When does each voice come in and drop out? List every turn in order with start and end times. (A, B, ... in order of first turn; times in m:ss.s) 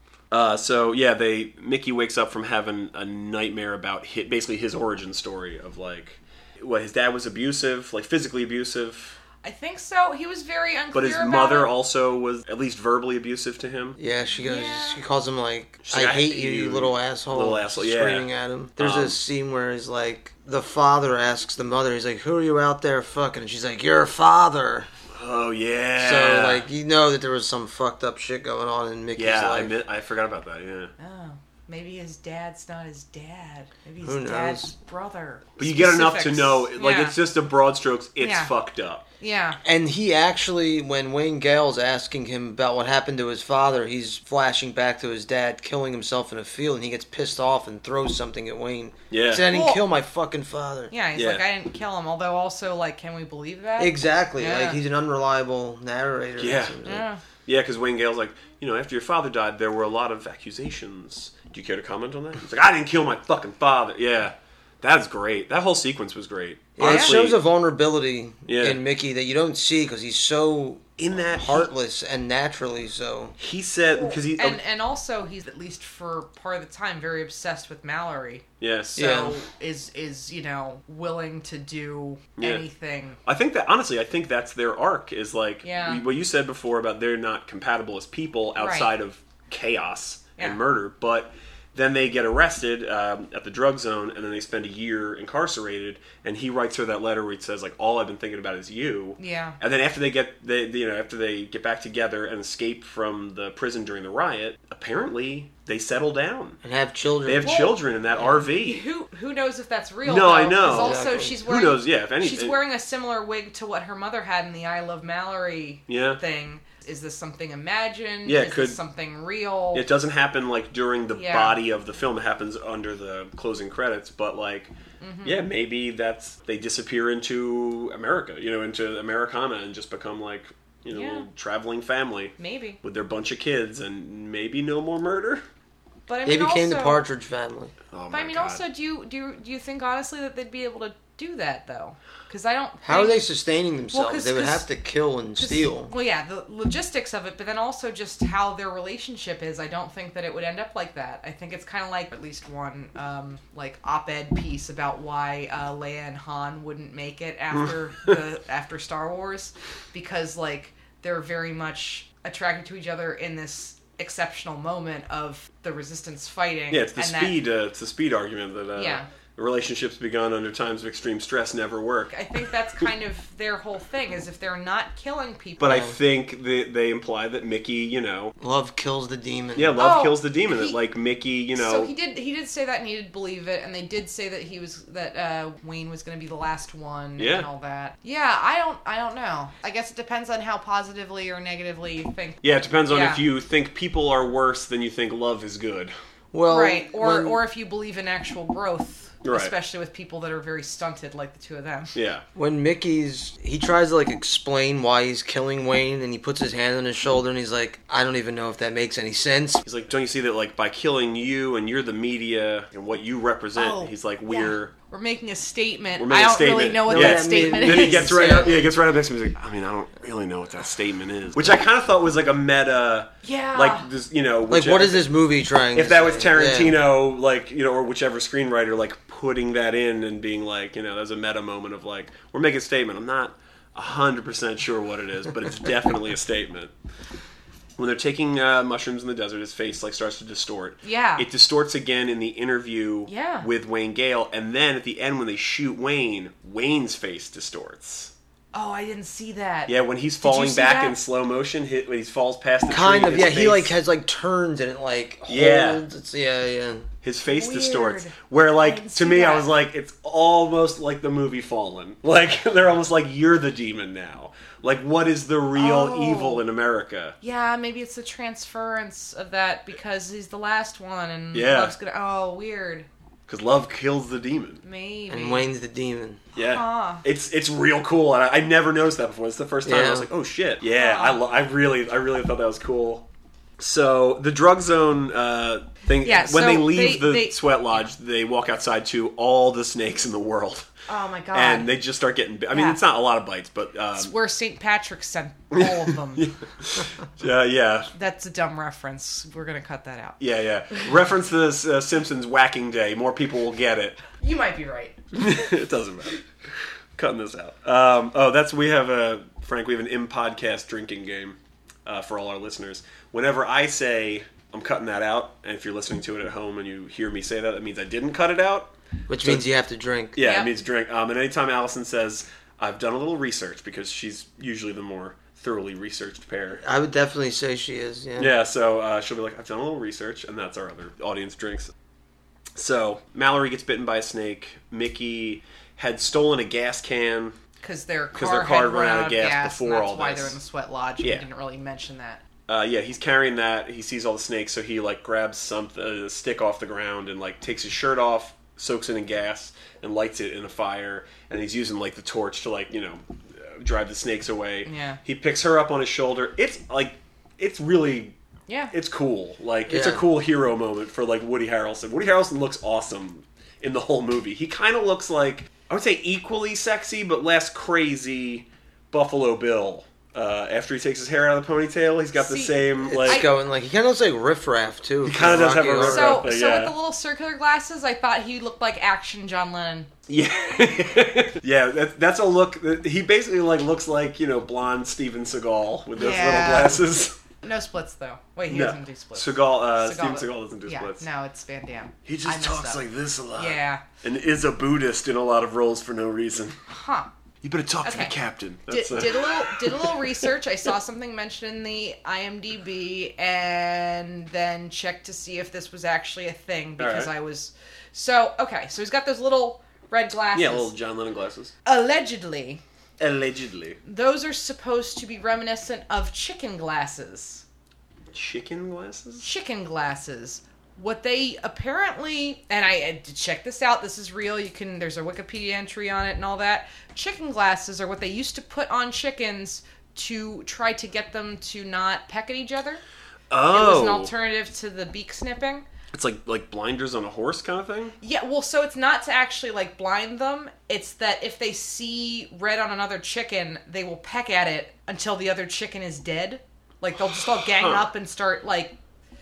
0:00.3-0:09.2 A
0:09.4-0:11.7 B
0:10.9-0:14.0 A
0:14.0-0:24.9 C
0:14.3-0:15.0 B
0:15.8-0:19.2 A
0:25.1-0:26.6 A
0:26.0-0:29.7 C
0:29.2-0:30.9 A
0:31.0-0:37.2 B
0:34.0-0:34.7 C
0:35.6-0:39.0 A
0:38.2-0:38.5 B
0:39.2-0:39.6 B
0:39.6-0:50.9 C
0:49.1-0:49.5 A
0:49.4-0:49.8 B
0:50.9-0:54.8 B
0:51.1-0:51.4 A
0:53.8-0:57.0 C
0:56.4-1:07.4 A
0:56.8-0:57.2 B
1:06.8-1:13.4 C
1:06.8-1:07.2 B
1:08.5-1:08.8 A
1:11.0-1:11.7 A
1:13.4-1:14.6 A
1:13.9-1:23.2 B
1:18.6-1:19.1 A
1:19.0-1:19.4 C
1:22.4-1:22.6 A
1:23.2-1:46.6 A
1:25.6-1:26.0 B
1:28.6-1:28.9 B
1:39.2-1:39.6 B
1:46.6-1:47.7 C
1:47.2-1:48.8 A
1:47.4-1:59.8 B
1:50.0-1:52.6 A
1:50.6-1:51.4 C
1:55.9-1:56.2 A
1:58.2-1:58.8 A
1:59.7-2:04.7 A
2:01.1-2:01.6 B
2:05.0-2:05.4 B
2:05.2-2:15.4 A
2:10.9-2:11.2 B
2:12.4-2:12.8 B
2:16.1-2:17.0 B
2:16.2-2:17.7 C
2:17.9-2:18.6 A
2:18.1-2:23.2 B
2:22.8-2:25.9 C
2:23.9-2:24.6 B
2:25.4-2:47.3 B
2:46.7-2:52.1 A
2:48.8-2:49.0 B
2:52.1-2:55.9 B
2:55.6-2:58.3 A
2:58.4-2:59.8 C
2:59.6-3:01.9 A
2:59.8-3:00.8 B
3:01.5-3:13.2 B
3:07.2-3:07.5 A
3:12.4-3:15.9 A
3:16.3-3:17.4 C
3:16.5-3:21.9 B
3:19.2-3:19.5 A
3:21.9-3:22.2 A
3:22.3-3:29.6 C
3:29.6-3:34.7 A
3:33.5-3:38.6 B
3:36.0-3:45.1 A
3:36.8-3:38.6 C
3:43.2-3:43.9 B
3:44.5-3:46.8 C
3:45.7-3:56.7 A
3:57.8-4:08.1 A
4:00.8-4:01.2 B
4:03.1-4:03.5 B
4:08.5-4:11.0 B
4:09.7-4:13.7 A
4:12.7-4:16.9 C
4:15.3-4:15.8 A
4:17.0-4:27.2 A
4:17.3-4:19.5 B
4:25.6-4:26.4 B
4:27.2-4:32.9 B
4:31.3-4:31.7 A
4:33.3-4:34.6 A
4:34.6-4:35.5 B
4:35.1-4:36.2 C
4:36.4-4:43.0 A
4:36.4-4:37.0 B
4:39.6-4:40.1 C
4:40.6-4:41.2 B
4:43.6-4:50.7 A
4:46.0-4:47.8 B
4:50.9-4:51.7 B
4:51.3-4:54.1 A
4:52.5-4:52.8 B
4:54.0-4:56.3 B
4:55.5-4:57.9 A
4:57.9-5:00.2 B
5:00.2-5:04.0 A
5:04.2-5:05.0 B
5:05.1-5:06.2 A
5:07.0-5:19.4 A
5:19.1-5:20.2 C
5:20.2-5:26.6 A
5:20.2-5:20.5 B
5:26.6-5:28.3 C
5:28.2-5:31.7 A
5:32.6-5:37.4 A
5:37.6-5:42.2 B
5:38.1-5:40.4 A
5:42.5-5:58.2 A
5:54.6-5:55.0 B
5:58.5-5:58.7 B
5:58.7-6:13.2 A
5:59.7-6:00.0 C
6:12.2-6:13.3 B
6:12.9-6:16.3 C
6:15.0-6:16.7 A
6:15.8-6:19.9 B
6:20.1-6:27.2 A
6:26.0-6:26.9 B
6:27.4-6:32.8 B
6:28.5-6:31.0 A
6:32.0-6:36.6 A
6:33.4-6:33.8 B
6:36.7-6:37.1 B
6:37.4-6:40.2 A
6:37.8-6:38.1 B
6:38.7-6:50.7 B
6:46.8-6:47.1 A
6:50.3-6:51.5 A
6:51.6-6:52.6 B
6:53.0-6:53.8 A
6:53.8-6:57.4 B
6:58.1-6:59.3 A
6:59.2-7:12.8 B
7:13.3-7:14.1 A
7:13.5-7:15.6 B
7:15.9-7:17.9 A
7:18.0-7:28.7 B
7:27.3-7:27.9 A